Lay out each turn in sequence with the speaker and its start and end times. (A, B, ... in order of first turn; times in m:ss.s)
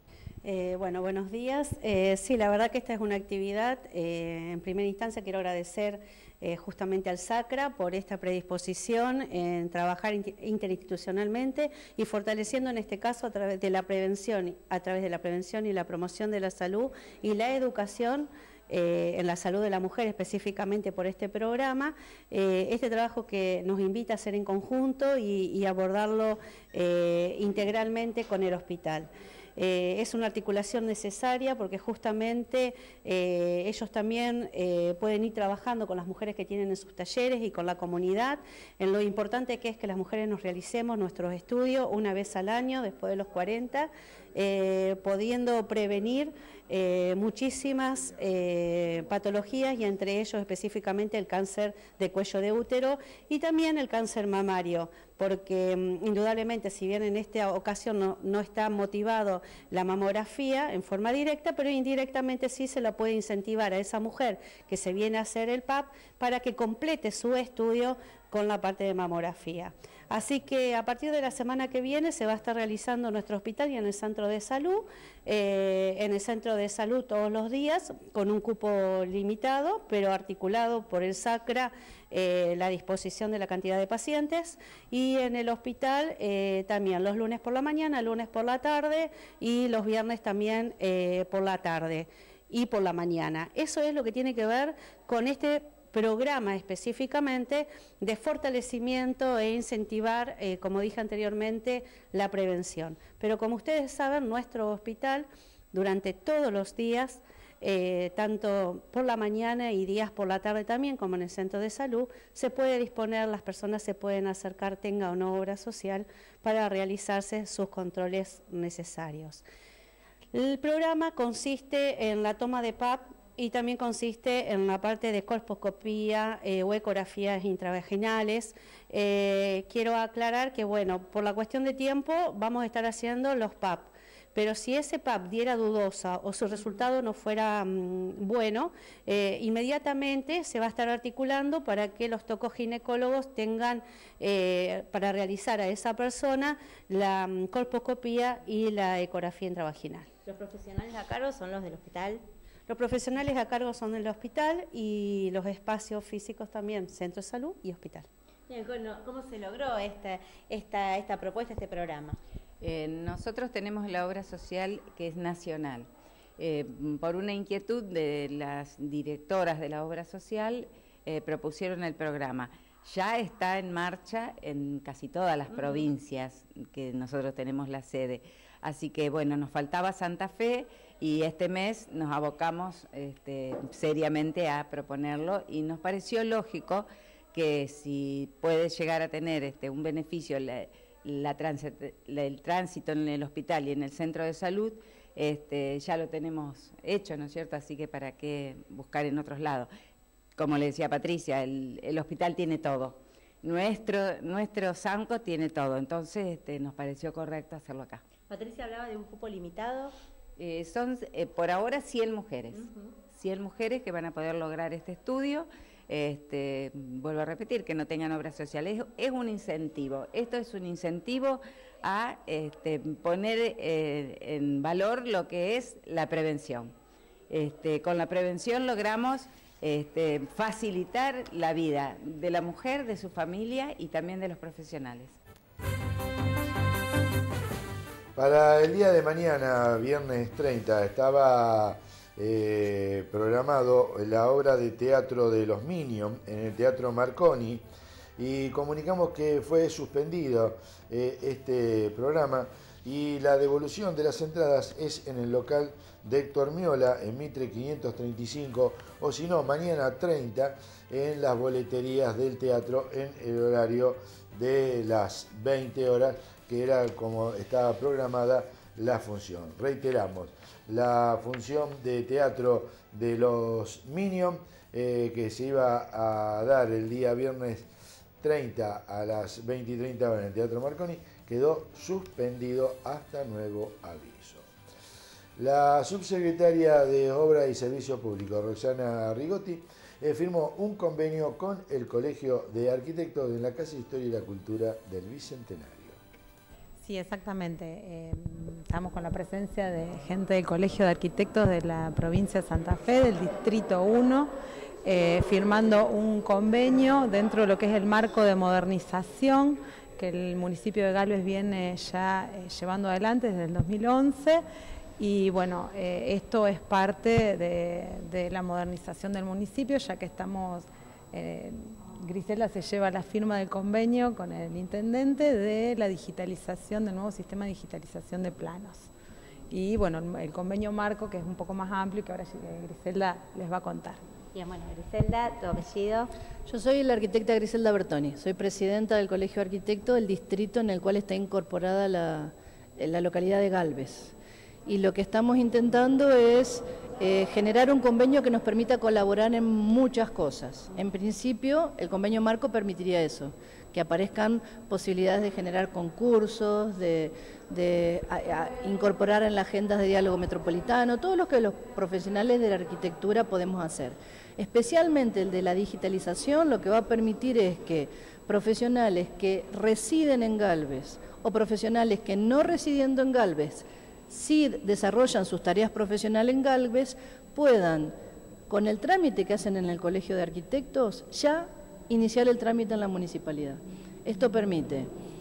0:00.4-1:59.4 A
2:00.3-2:30.1 A
2:30.2-2:32.2 B
2:32.7-2:38.1 A
2:38.5-2:42.2 B
2:42.6-3:19.7 C
2:55.5-2:55.9 B
3:20.4-3:28.0 C
3:28.2-3:29.9 B
3:30.4-3:46.7 C
3:32.5-3:33.0 B
3:47.3-3:55.2 C
3:58.2-4:07.6 D
4:08.2-4:37.7 D
4:38.2-4:44.5 D
4:45.4-4:56.0 D
4:56.8-5:04.3 E
5:04.8-5:14.4 E
5:15.0-5:28.9 E
5:29.5-5:34.0 E
5:34.3-5:36.1 B
5:36.5-5:44.1 F
5:44.7-6:18.0 F
6:18.5-6:24.9 F